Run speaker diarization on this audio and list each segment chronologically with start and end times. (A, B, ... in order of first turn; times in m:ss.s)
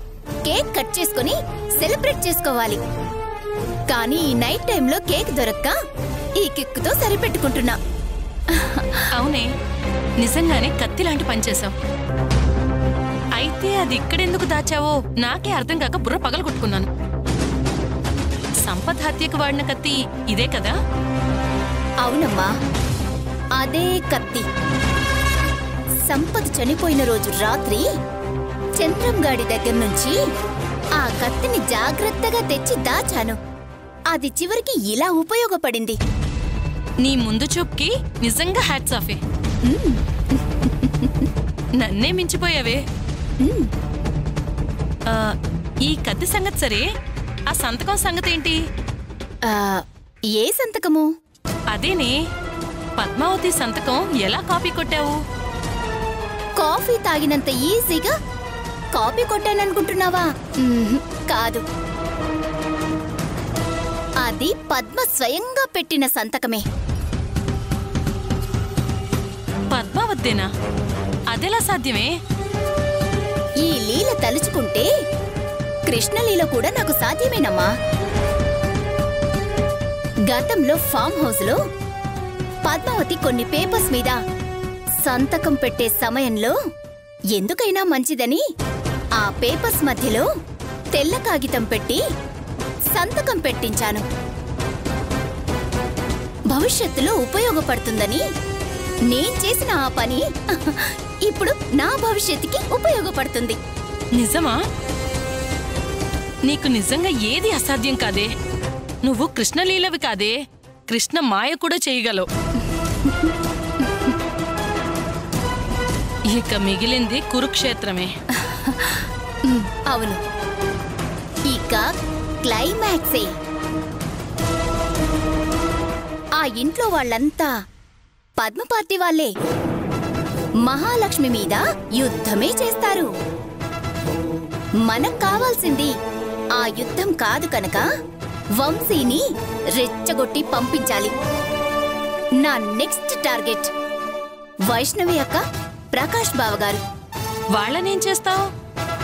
0:00.4-0:02.8 A
0:03.9-0:05.7 A
0:06.4-0:07.7 A
0:09.1-0:09.4 B
0:10.2-0:11.7 B
0:13.4-0:16.9 B
0:18.6-0:20.7 B
0:22.0-0:22.5 A
0:23.6-0:24.4 A
0:26.1-0:27.8 A
0:28.8-0:30.2 A
0:31.0-0:33.4 A
0:34.1-0:36.0 A
0:37.0-0:39.2 B
0:39.6-0:41.2 A
0:41.8-0:42.8 B
0:43.4-0:43.7 A
0:45.9-0:46.8 B
0:47.5-0:48.6 B
0:49.4-0:49.8 A
0:50.4-0:51.1 A
0:51.7-0:52.1 B
0:53.0-0:55.2 B
0:56.6-0:58.1 A
0:58.9-1:01.6 A
1:04.2-1:06.6 A
1:09.7-1:10.5 B
1:11.3-1:12.1 B
1:13.6-1:14.9 A
1:15.9-1:17.7 A
1:20.3-1:21.6 A
1:22.6-1:24.2 A
1:25.0-1:26.5 A
1:27.3-1:28.4 A
1:29.2-1:30.3 A
1:30.9-1:32.0 A
1:32.9-1:34.0 A
1:36.5-1:38.2 A
1:39.1-1:43.6 A
1:44.2-1:44.5 B
1:46.4-1:48.3 B
1:49.0-1:50.4 B
1:50.9-1:52.3 B
1:56.3-1:58.1 B
1:58.6-2:00.2 A
2:01.5-2:01.9 A
2:02.4-2:03.3 A
2:06.4-2:07.5 A
2:08.4-2:09.3 A
2:10.6-2:13.1 A
2:14.8-2:15.9 A
2:16.6-2:17.8 A
2:18.6-2:19.2 A
2:19.8-2:21.1 A
2:22.4-2:23.7 A
2:24.7-2:25.4 A
2:25.9-2:26.8 A
2:27.5-2:28.4 B